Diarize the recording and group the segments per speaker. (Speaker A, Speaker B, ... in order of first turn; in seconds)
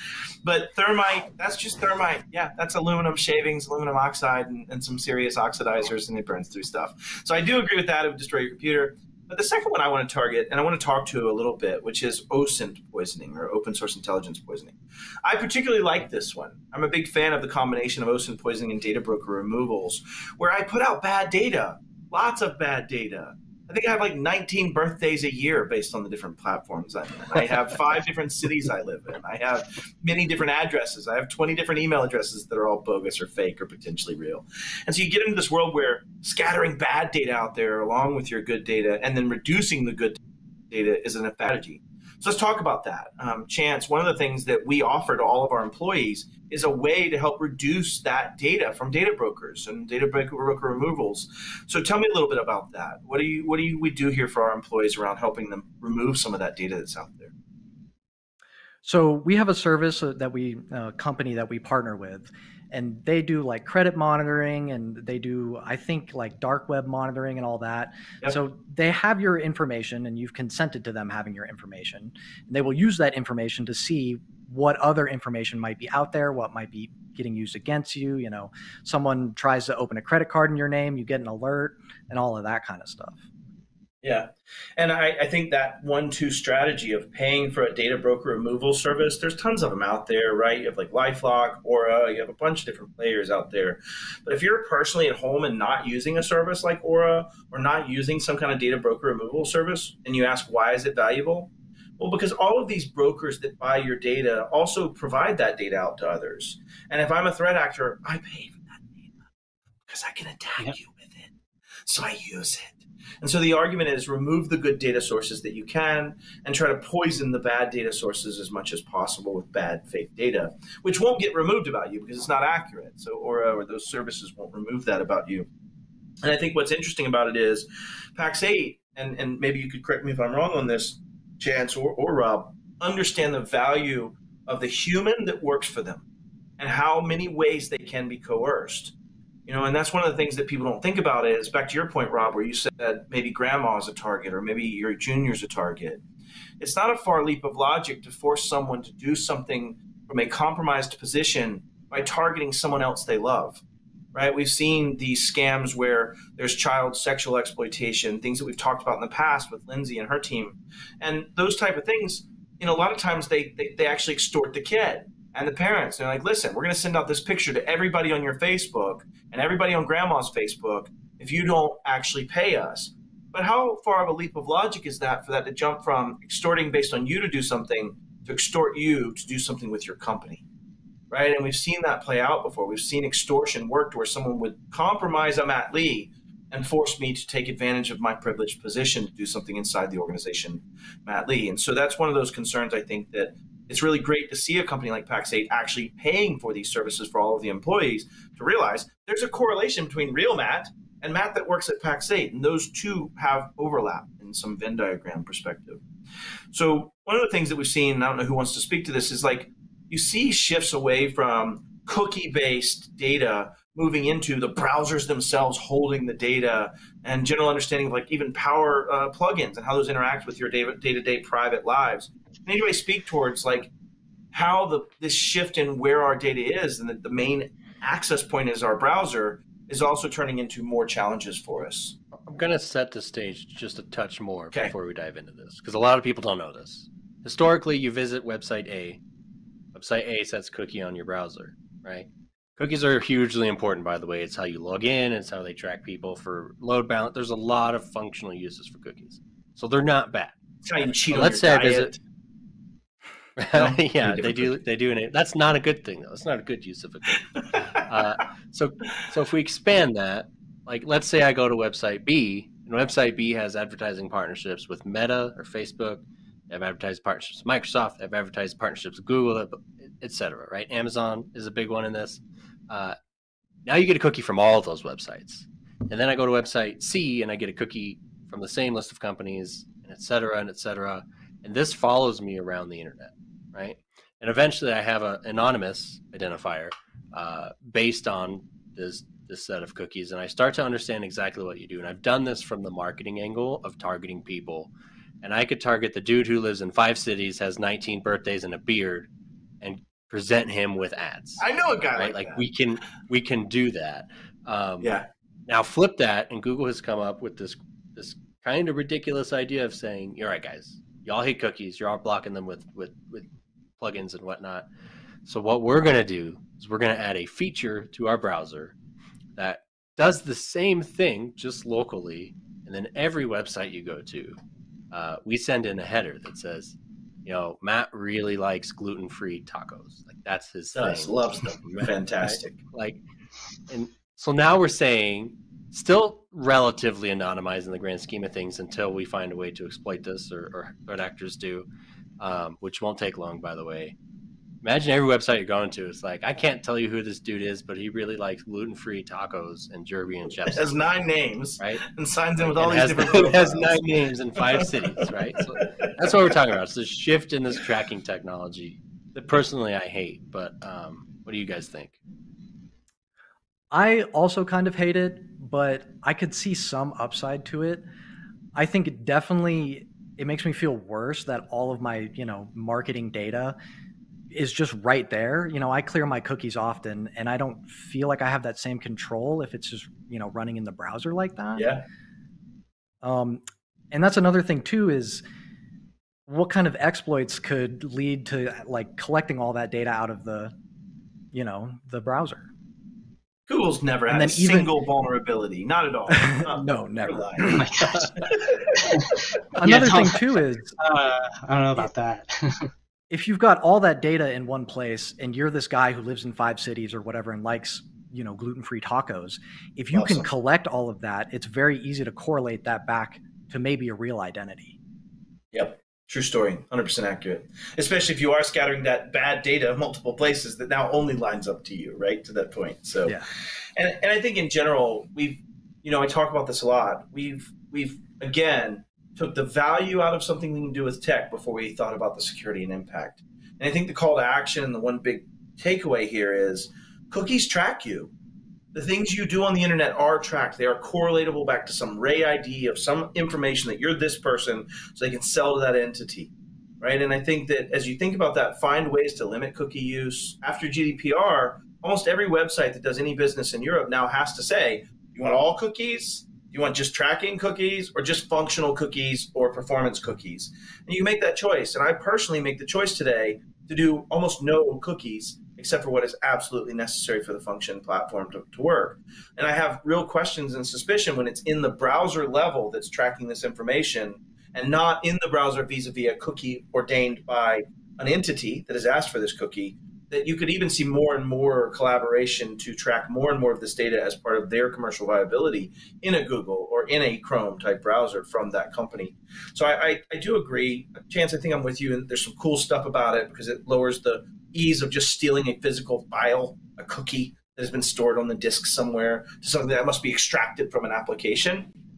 Speaker A: 0.4-57.3, 84.0-109.1, 109.9-111.3, 111.9-125.5, 126.2-136.0, 136.6-138.9, 139.5-146.0, 146.6-153.6, 154.1-180.4, 181.1-205.8, 206.5-223.7, 224.3-232.0, 250.6-252.0, 253.5-254.6, 301.4-302.4, 304.8-305.1, 330.7-332.6, 350.4-354.7, 355.6-356.1, 381.6-381.8, 393.5-398.9, 409.9-410.3, 415.5-423.2, 423.8-438.1, 438.7-501.7
Speaker B: 58.8-83.2, 363.7-367.8, 368.6-373.6, 374.3-381.7, 383.0-385.2, 386.2-390.5, 391.3-392.5, 394.1-394.8, 396.1-397.7, 399.6-400.8, 403.1-414.8
Speaker C: 232.2-239.0, 239.7-250.3, 251.1-251.9, 253.4-272.9, 273.6-294.7, 295.2-299.1, 299.6-301.4, 301.9-304.9, 305.5-313.2, 313.8-314.6, 315.2-318.7, 319.4-324.4, 324.9-333.0, 333.7-341.6, 342.2-343.9, 344.6-350.8, 352.4-361.9
Speaker D: 397.4-398.3, 398.9-400.2, 400.8-402.7